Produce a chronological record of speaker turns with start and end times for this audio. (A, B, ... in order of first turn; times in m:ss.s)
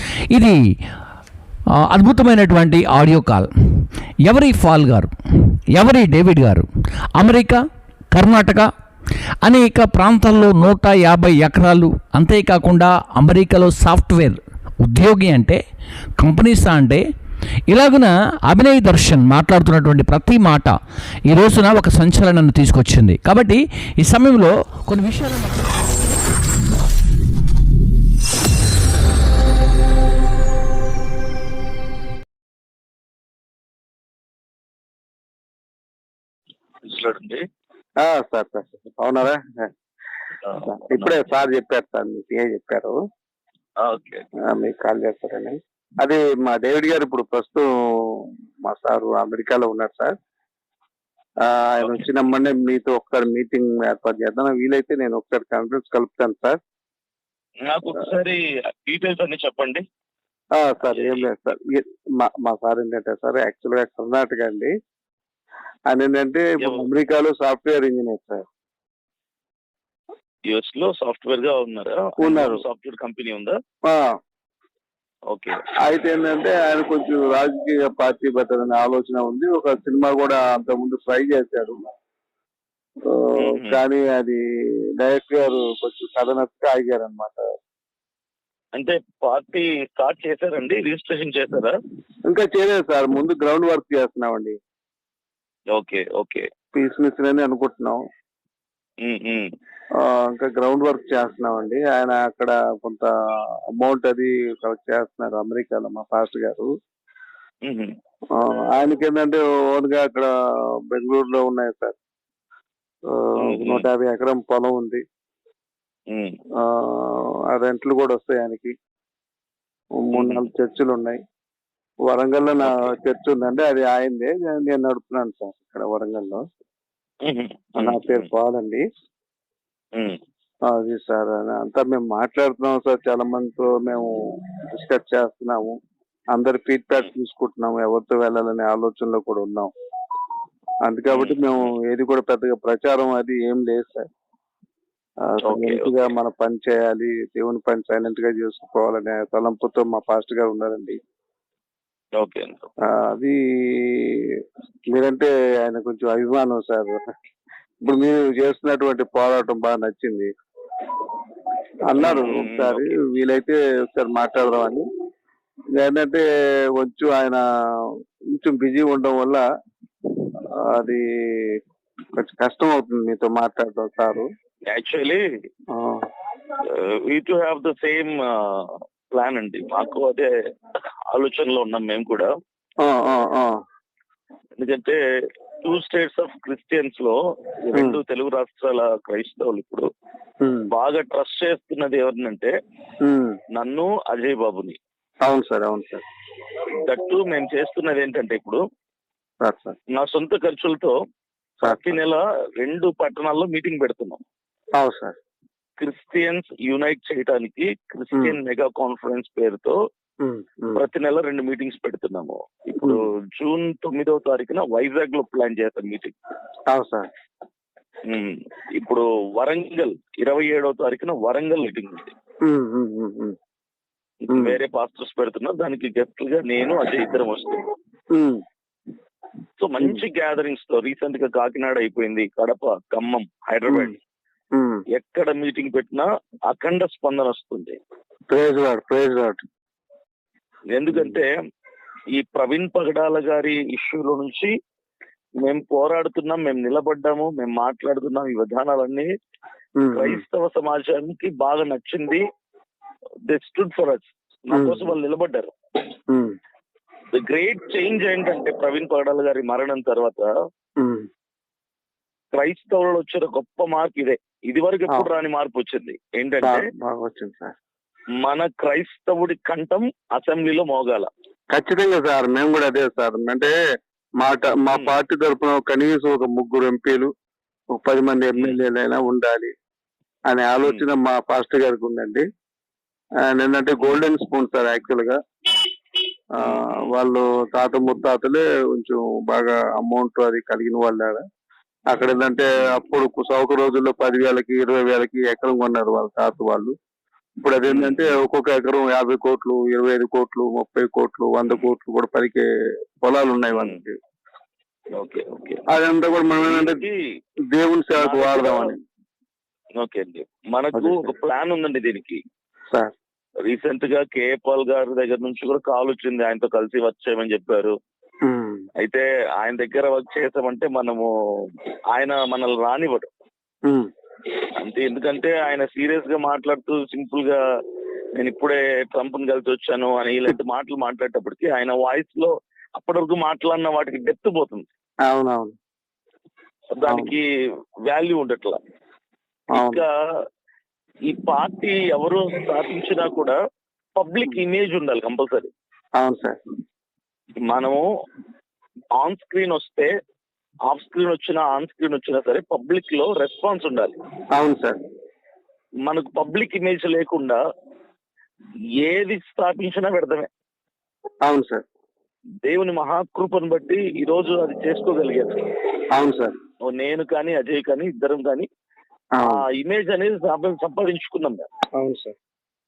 0:00.3-0:00.6 A
0:01.9-0:03.5 A
0:04.2-0:05.1 A
0:05.7-0:06.6 A
0:07.2-0:07.6 A
0:08.1-0:08.7 A
0:09.4-0:15.6 A
0:16.2-0:17.0 A
0:17.7-0:20.8 A
0:21.3-0:26.0 A
0:36.9-0:37.4 B
0:38.0-0:39.7 C
0:40.5-0:41.3 B
0:40.7-0:43.0 C
0:43.8-0:44.2 B
0:44.5-0:50.2 C
0:51.4-0:56.6 C
0:57.7-0:59.8 B
1:00.6-1:04.7 C
1:00.8-1:01.3 B
1:05.9-1:08.4 C
1:06.6-1:06.8 B
1:10.5-1:13.6 B
1:12.2-1:12.6 C
1:15.3-1:15.6 B
1:15.8-1:21.9 C
1:23.1-1:24.4 C
1:23.4-1:23.8 B
1:25.0-1:27.4 C
1:28.8-1:31.8 B
1:32.3-1:34.6 C
1:35.7-1:36.4 B
1:36.7-1:38.0 C
1:39.0-1:39.5 B
1:40.0-1:43.1 C
1:43.8-1:46.7 C
1:47.7-1:47.9 B
1:48.3-1:50.3 C
1:50.9-1:52.0 C
1:53.1-1:55.0 C
1:53.4-1:53.9 B
1:56.1-1:56.4 B
1:56.6-1:58.7 C
2:00.0-2:01.2 C
2:00.1-2:00.4 B
2:02.1-2:06.4 C
2:02.6-2:02.9 B
2:07.2-2:08.3 B
2:07.8-2:08.8 C
2:10.7-2:14.1 C
2:14.7-2:15.8 C
2:16.3-2:19.7 C
2:20.8-2:24.1 C
2:21.1-2:21.7 B
2:25.2-2:31.0 C
2:25.4-2:26.1 B
2:32.2-2:32.7 B
2:32.8-2:34.4 C
2:34.9-2:37.0 C
2:37.8-2:40.3 C
2:41.9-2:44.8 C
2:42.0-2:42.9 B
2:45.8-2:46.2 C
2:46.8-2:47.4 C
2:48.3-2:49.4 C
2:50.7-2:51.6 C
2:52.2-2:54.3 C
2:54.7-2:55.2 B
2:55.7-2:56.0 C
2:56.8-3:00.3 B
3:01.1-3:02.3 B
3:02.8-3:03.6 C
3:04.6-3:05.0 B
3:05.6-3:09.9 B
3:07.7-3:08.0 C
3:10.4-3:10.7 C
3:10.7-3:12.5 B
3:13.0-3:13.4 C
3:13.5-3:14.8 B
3:15.2-3:16.0 C
3:16.8-3:18.6 B
3:19.4-3:19.8 C
3:19.9-3:20.9 B
3:21.6-3:22.0 C
3:21.6-3:24.2 B
3:24.8-3:25.2 C
3:25.8-3:29.8 B
3:30.2-3:30.8 C
3:30.8-3:36.1 B
3:36.7-3:37.1 C
3:38.1-3:42.1 B
3:42.4-3:43.4 C
3:44.2-3:47.6 B
3:44.3-3:44.6 C
3:48.1-3:48.4 C
3:49.6-3:54.0 B
3:53.7-3:53.9 C
3:54.5-3:54.8 C
3:54.9-3:57.8 B
3:58.3-3:59.4 C
4:00.7-4:01.3 B
4:02.1-4:04.5 B
4:05.4-4:09.1 B
4:09.8-4:10.2 C
4:09.9-4:12.2 B
4:13.3-4:15.5 B
4:14.5-4:14.9 C
4:16.1-4:16.4 C
4:17.1-4:20.3 B
4:20.8-4:21.1 C
4:22.3-4:26.7 B
4:26.4-4:27.5 C
4:28.2-4:31.1 B
4:31.5-4:33.5 C
4:34.2-4:37.1 C
4:37.8-4:39.5 C
4:40.3-4:42.2 C
4:43.2-4:45.2 C
4:46.4-4:51.2 C
4:46.4-4:46.9 B
4:51.9-4:56.8 C
4:57.4-5:02.4 C
4:57.7-4:58.2 B
5:03.0-5:04.0 C
5:03.5-5:03.8 B
5:05.0-5:05.6 B
5:05.7-5:06.8 C
5:06.4-5:07.0 B
5:07.5-5:08.8 C
5:08.0-5:08.7 B
5:09.8-5:12.2 B
5:10.7-5:11.1 C
5:13.5-5:17.8 B
5:18.2-5:18.6 C
5:18.8-5:21.1 B
5:21.9-5:23.1 B
5:24.6-5:27.4 B
5:28.2-5:34.6 B
5:35.1-5:35.5 C
5:36.8-5:37.3 B
5:36.9-5:37.1 C
5:37.9-5:38.6 B
5:39.5-5:39.8 C
5:39.5-5:39.9 B
5:41.1-5:43.4 B
5:44.0-5:45.5 B
5:46.0-5:46.4 C
5:47.5-5:47.9 B
5:49.0-5:49.9 B
5:50.7-5:54.0 B
5:54.3-5:54.8 C
5:55.9-5:57.4 B
5:58.8-6:00.3 B
6:01.2-6:01.6 C
6:02.4-6:05.4 B
6:05.9-6:06.3 C
6:06.6-6:08.5 B
6:09.2-6:09.4 C
6:09.2-6:11.5 B
6:11.8-6:12.1 C